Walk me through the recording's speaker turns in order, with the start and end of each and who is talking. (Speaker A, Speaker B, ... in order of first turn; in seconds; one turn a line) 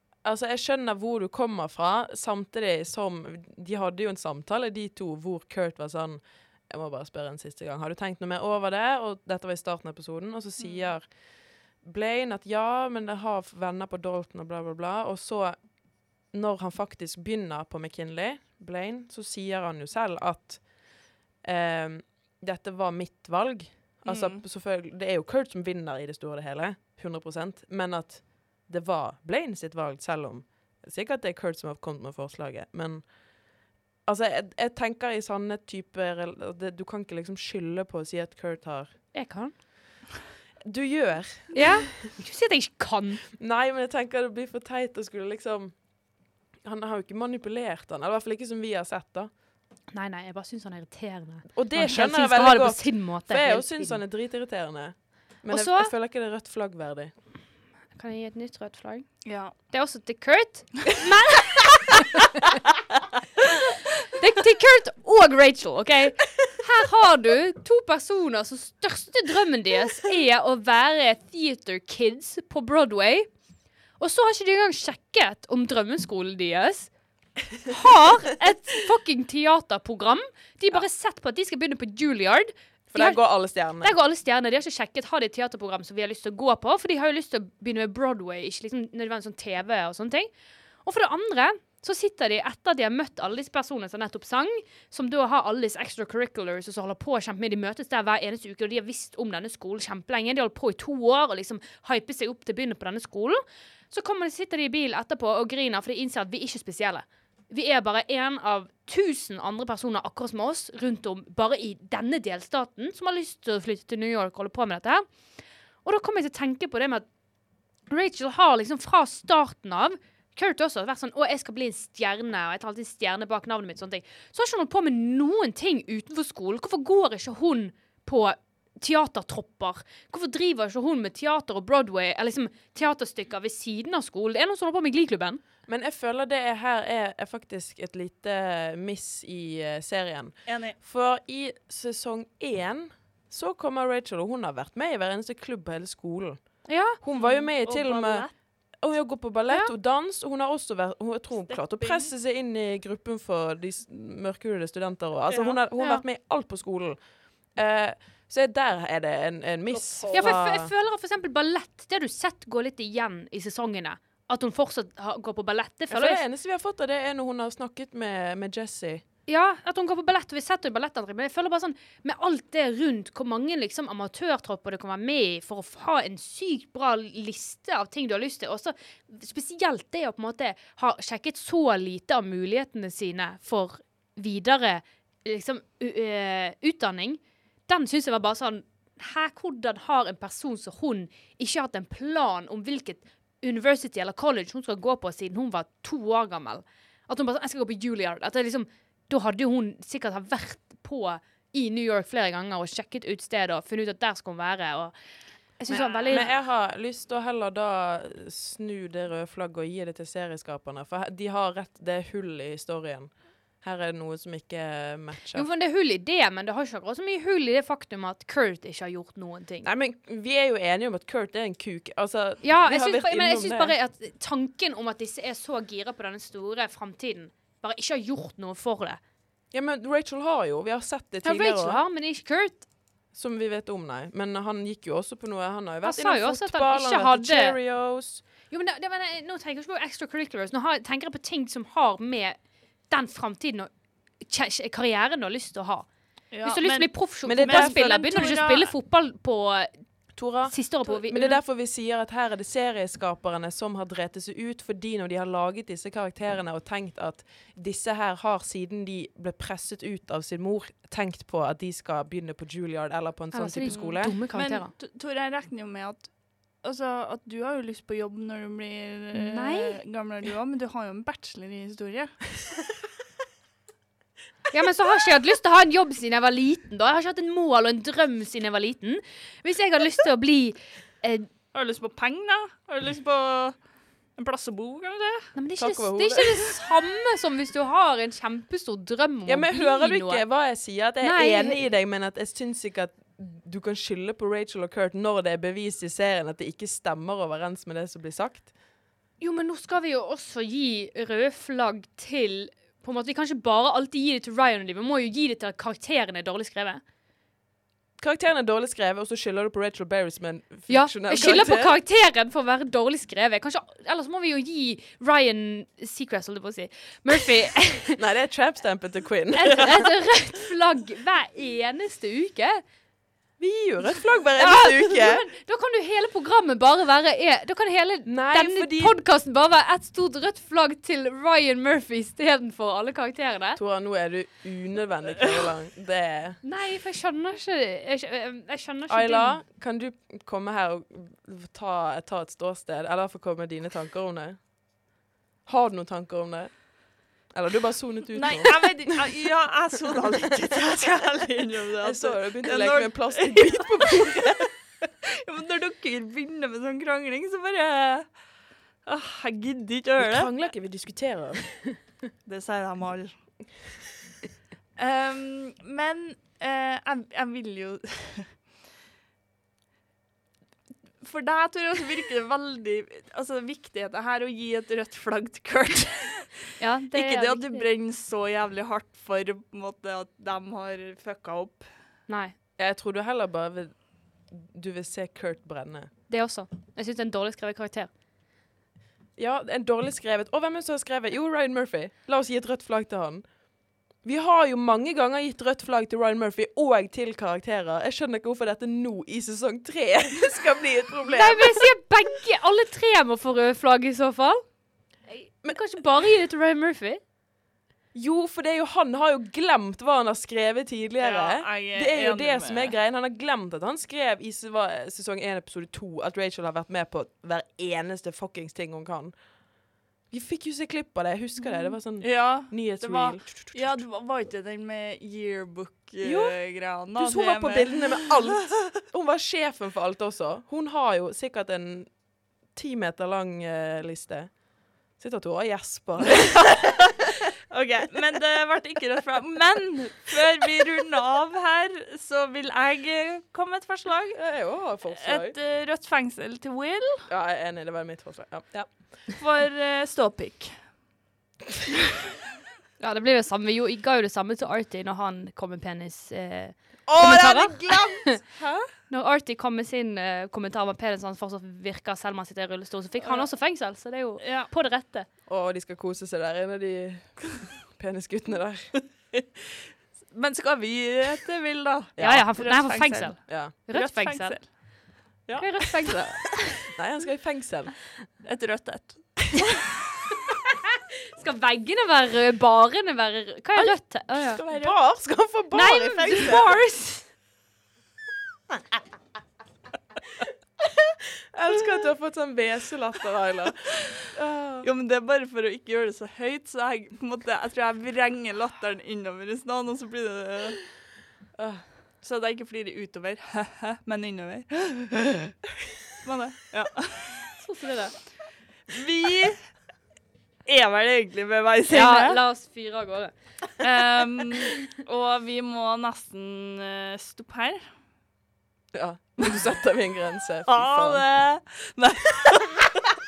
Speaker A: 0.2-39.0
Speaker B: 10.6-10.8
Speaker B: 24.0-24.4
Speaker C: 39.1-39.5
Speaker A: 40.6-41.8
Speaker C: 41.5-43.2
Speaker A: 43.4-49.3
Speaker C: 49.9-54.0
Speaker A: 51.5-57.1
Speaker C: 55.5-55.9
Speaker C: 57.9-62.0
Speaker B: 59.2-59.5
Speaker C: 64.1-73.3
Speaker C: 74.0-76.9
Speaker C: 77.7-90.3
Speaker A: 82.9-83.9
Speaker C: 90.8-115.1
Speaker C: 115.8-117.1
Speaker C: 117.9-135.4
Speaker A: 135.7-160.7
Speaker B: 140.4-140.8
Speaker C: 146.7-147.0
Speaker B: 147.1-148.3
Speaker C: 149.5-149.7
Speaker B: 151.4-152.1
Speaker B: 155.3-155.6
Speaker C: 155.8-156.0
Speaker B: 159.7-160.4
Speaker C: 160.1-166.2
Speaker A: 165.9-169.0
Speaker C: 169.3-204.9
Speaker C: 205.5-206.3
Speaker A: 205.7-215.5
Speaker B: 205.8-206.3
Speaker C: 215.3-219.7
Speaker A: 219.6-223.7
Speaker C: 222.4-229.0
Speaker A: 229.5-231.8
Speaker C: 231.2-232.7
Speaker A: 233.1-238.2
Speaker C: 235.8-237.6
Speaker C: 238.5-245.9
Speaker B: 246.3-248.7
Speaker C: 246.4-249.9
Speaker A: 247.2-248.2
Speaker A: 250.2-264.1
Speaker C: 250.4-251.4
Speaker C: 263.3-264.7
Speaker B: 263.7-272.3
Speaker C: 269.1-269.8
Speaker C: 274.5-281.3
Speaker B: 281.5-285.3
Speaker C: 285.3-291.7
Speaker A: 285.6-286.5
Speaker A: 289.3-298.5
Speaker C: 299.2-306.8
Speaker A: 308.0-311.7
Speaker C: 310.7-318.0
Speaker A: 317.9-319.7
Speaker C: 319.3-322.6
Speaker A: 323.4-325.2
Speaker C: 324.4-333.6
Speaker A: 328.1-328.9
Speaker A: 333.6-336.4
Speaker C: 336.4-339.4
Speaker A: 338.9-344.5
Speaker A: 345.4-349.0
Speaker B: 348.1-354.5
Speaker A: 351.8-354.5
Speaker B: 355.3-358.2
Speaker B: 358.9-360.3
Speaker A: 360.0-361.8
Speaker B: 362.2-363.2
Speaker B: 364.8-368.3
Speaker B: 371.0-376.3
Speaker C: 376.6-377.7
Speaker B: 376.9-381.8
Speaker C: 382.1-382.3
Speaker A: 382.6-385.9
Speaker C: 386.1-387.9
Speaker A: 389.1-393.4
Speaker A: 393.9-401.7
Speaker C: 401.1-404.5
Speaker C: 405.0-407.0
Speaker A: 407.9-423.8
Speaker B: 411.0-412.7
Speaker B: 422.0-428.3
Speaker A: 426.0-426.4
Speaker A: 426.9-436.7
Speaker B: 437.5-447.1
Speaker A: 444.1-445.4
Speaker A: 447.1-449.1
Speaker B: 449.1-450.7
Speaker C: 452.8-458.2
Speaker A: 456.9-458.1
Speaker B: 458.4-458.7
Speaker C: 458.9-465.1
Speaker B: 463.0-463.3
Speaker B: 464.2-464.5
Speaker A: 465.2-468.8
Speaker B: 470.0-474.5
Speaker A: 471.9-472.3
Speaker C: 472.0-476.4
Speaker A: 473.3-473.5
Speaker A: 475.3-477.9
Speaker B: 478.2-479.6
Speaker C: 481.1-484.4
Speaker A: 484.2-486.5
Speaker B: 484.4-484.7
Speaker C: 485.5-487.1
Speaker A: 491.3-494.7
Speaker B: 494.6-500.6
Speaker A: 501.4-501.7
Speaker B: 502.0-505.3
Speaker B: 506.0-507.3
Speaker C: 507.4-508.0
Speaker B: 508.7-509.5
Speaker B: 510.4-512.2
Speaker C: 511.7-513.1
Speaker B: 513.6-517.7
Speaker A: 518.7-521.0
Speaker B: 520.5-522.8